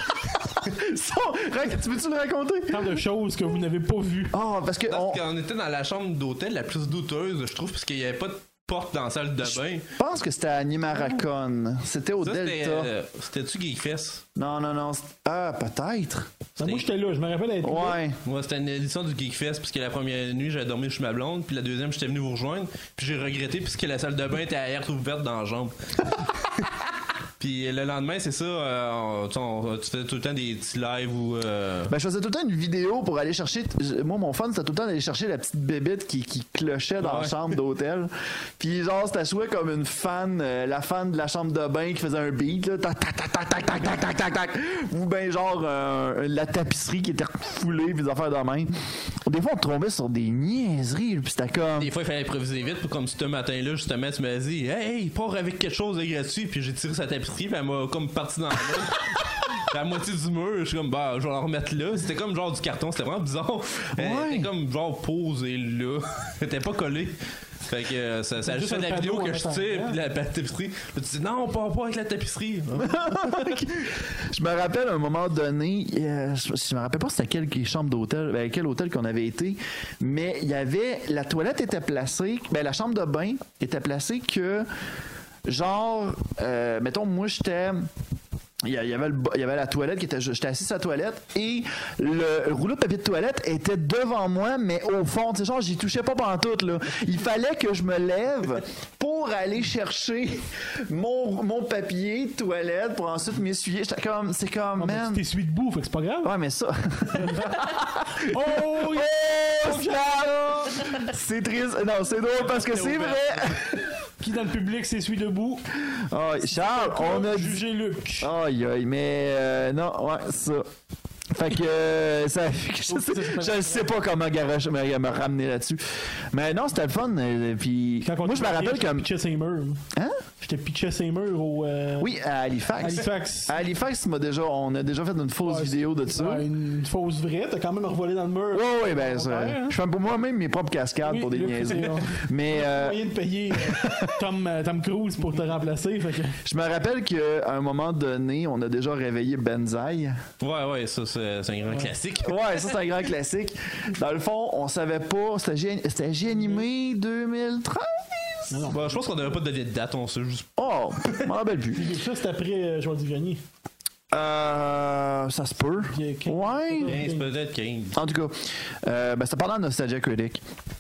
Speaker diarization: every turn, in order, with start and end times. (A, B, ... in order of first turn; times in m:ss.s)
0:00.6-0:03.0 A
0:02.7-0:04.4 B
0:04.3-0:05.2 A
0:04.9-0:09.9 C
0:09.5-0:12.9 A
0:12.2-0:14.2 C
0:14.4-0:16.3 A
0:16.6-0:16.9 C
0:16.6-0:18.0 B
0:17.6-0:18.2 A
0:18.2-0:25.7 C
0:27.4-0:31.9 C
0:31.9-0:48.7 A
0:37.0-0:37.6 C
0:49.2-0:51.9 A
0:51.8-1:13.6 C
1:04.0-1:04.5 A
1:08.4-1:10.0 B
1:12.8-1:24.7 A
1:25.5-1:27.9 A
1:28.6-1:45.2 A
1:44.8-1:46.3 B
1:46.2-1:53.9 A
1:48.3-1:51.0 B
1:52.5-1:53.3 C
1:54.2-1:55.6 B
1:55.8-1:57.6 A
1:56.4-1:58.3 B
1:58.2-2:00.7 A
2:01.3-2:09.1 A
2:02.9-2:03.8 B
2:08.0-2:09.8 B
2:09.9-2:10.2 A
2:10.4-2:12.1 B
2:12.0-2:16.5 A
2:12.8-2:13.5 B
2:15.4-2:19.8 B
2:18.5-2:23.0 A
2:21.0-2:26.4 B
2:23.5-2:24.2 A
2:26.4-2:30.2 A
2:30.4-2:32.4 C
2:32.2-2:38.7 A
2:36.3-2:36.7 B
2:38.5-2:39.0 B
2:38.7-2:41.3 C
2:40.6-2:41.9 A
2:41.7-2:43.4 B
2:44.1-2:46.9 A
2:45.9-2:47.3 B
2:46.9-2:48.0 C
2:48.0-2:50.4 A